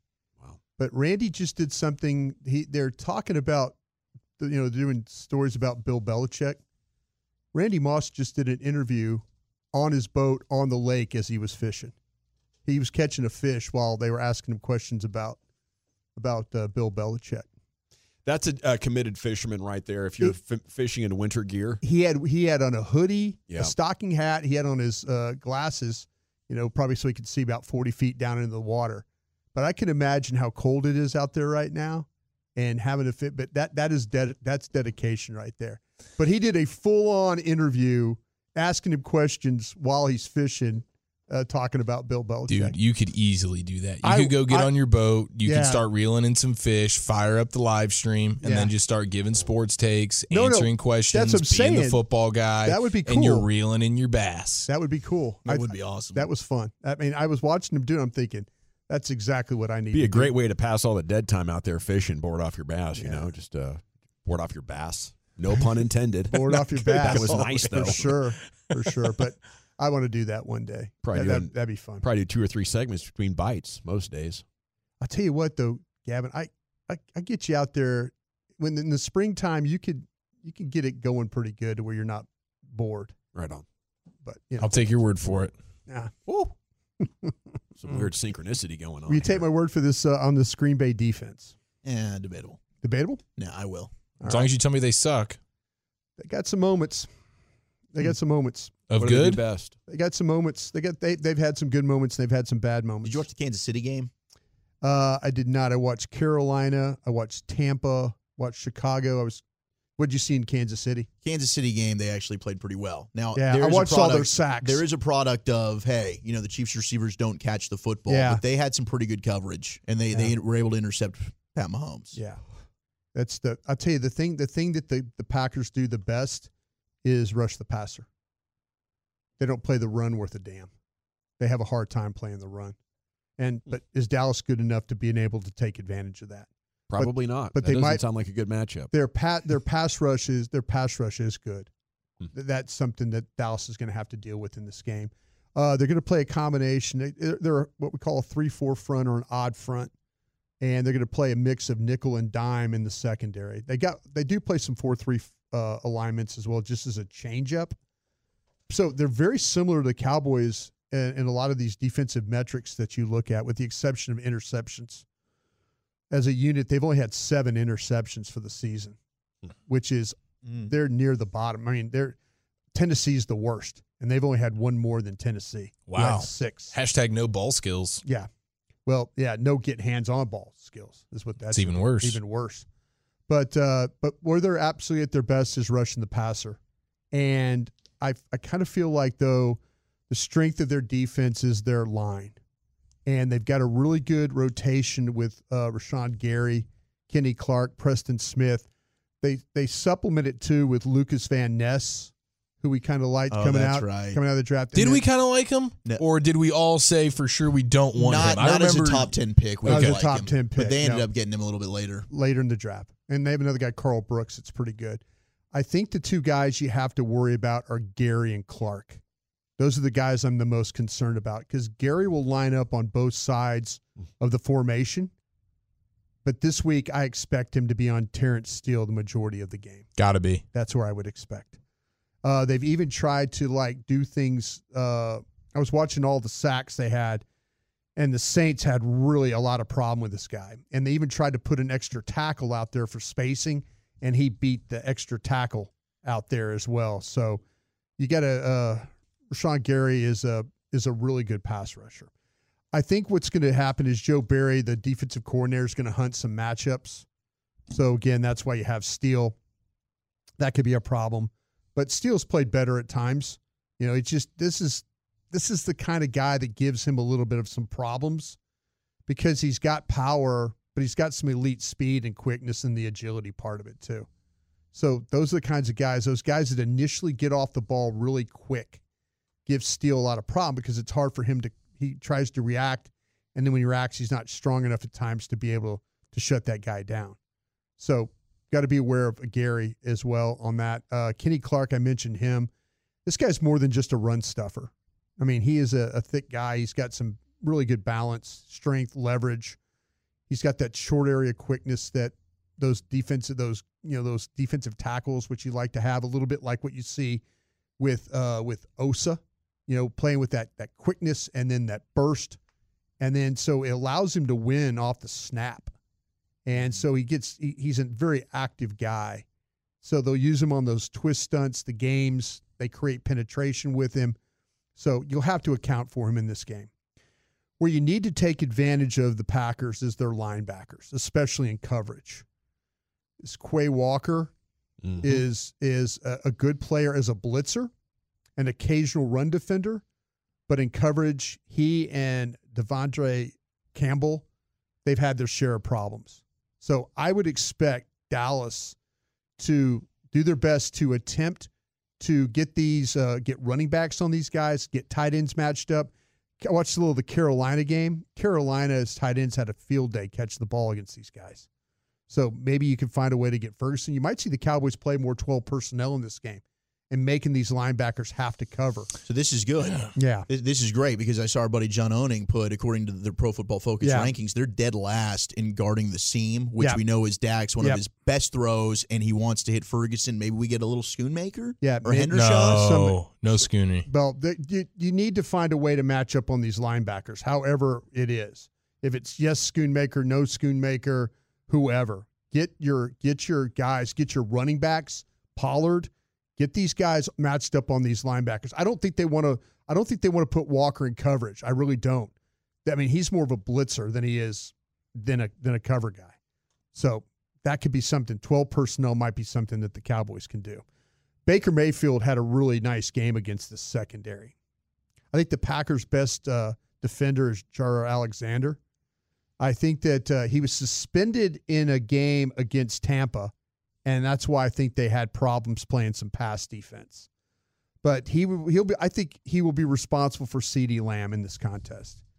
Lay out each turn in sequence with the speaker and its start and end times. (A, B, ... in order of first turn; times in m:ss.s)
0:00.8-0:03.8 A
0:04.4-0:06.6 A
0:07.5-0:12.0 A
0:12.7-0:15.4 A
0:16.2-0:17.5 A
0:18.2-0:21.8 B
0:21.8-0:42.8 A
0:42.5-0:54.7 C
0:44.0-0:44.7 A
0:45.4-0:45.8 A
0:48.4-0:48.7 A
0:50.3-0:52.0 A
0:52.6-0:53.5 A
0:54.7-1:00.3 A
0:55.4-0:56.3 D
0:59.9-1:08.2 B
1:03.0-1:03.3 A
1:06.3-1:12.0 A
1:07.1-1:08.0 D
1:11.0-1:14.4 B
1:15.0-1:23.2 A
1:23.4-1:23.6 B
1:24.2-1:25.0 A
1:24.6-1:25.5 C
1:25.9-1:27.3 A
1:27.8-1:29.4 B
1:29.1-1:31.5 A
1:31.8-1:32.6 D
1:32.8-1:33.2 A
1:33.4-1:33.9 D
1:34.2-1:34.5 A
1:34.3-1:35.4 C
1:36.2-1:37.1 A
1:37.9-1:38.7 A
1:38.9-1:39.4 C
1:39.0-1:39.8 B
1:39.9-1:43.3 A
1:43.0-1:44.1 D
1:44.8-1:49.4 A
1:50.0-1:51.1 A
1:51.2-2:02.2 D
1:53.4-1:54.8 A
1:58.1-1:58.4 A
2:02.1-2:02.4 A
2:03.1-2:06.5 A
2:07.0-2:08.1 A
2:09.4-2:10.7 A
2:11.4-2:12.8 A
2:13.4-2:18.1 A
2:16.9-2:18.9 B
2:18.9-2:21.7 A
2:22.3-2:29.9 A
2:30.6-2:37.8 A
2:38.7-2:45.0 A
2:46.1-2:49.0 A
2:49.7-2:50.2 A
2:50.7-2:52.2 A
2:52.7-2:56.7 A
2:55.9-2:58.0 C
2:58.9-3:02.7 A
3:01.5-3:02.2 C
3:03.3-3:06.6 A
3:07.1-3:12.4 A
3:13.1-3:18.7 A
3:19.2-3:25.0 A
3:23.3-3:24.2 D
3:24.7-3:30.0 C
3:28.0-3:32.1 D
3:29.7-3:31.1 A
3:32.1-3:35.0 A
3:35.5-3:39.0 A
3:39.6-3:45.1 A
3:46.2-3:49.9 A
3:50.0-3:50.4 C
3:50.5-3:51.6 A
3:52.2-3:57.2 A
3:58.0-4:07.4 A
4:08.0-4:12.1 A
4:12.7-4:17.1 A
4:17.7-4:19.4 A
4:20.4-4:28.4 A
4:29.1-4:34.1 A
4:34.7-4:38.8 A
4:39.5-4:47.2 A
4:47.8-4:52.5 A
4:53.0-4:59.6 A
5:00.3-5:07.2 A
5:07.8-5:12.4 A
5:13.0-5:15.7 A
5:16.5-5:19.3 A
5:19.8-5:24.2 A
5:24.8-5:26.7 A
5:27.6-5:32.2 A
5:33.2-5:34.3 A
5:34.8-5:35.2 B
5:35.0-5:37.7 A
5:38.4-5:39.8 A
5:40.5-5:44.2 A
5:44.8-5:48.8 A
5:49.4-6:01.5 A
6:02.1-6:08.9 A
6:09.0-6:22.7 D
6:10.0-6:10.3 A
6:13.8-6:14.1 A
6:21.6-6:42.1 A
6:22.1-6:23.9 C
6:42.6-6:46.1 A
6:46.7-6:50.6 A
6:51.3-6:54.3 A
6:55.1-6:58.6 A
6:59.4-7:03.3 A
7:03.9-7:07.1 A
7:07.8-7:12.0 A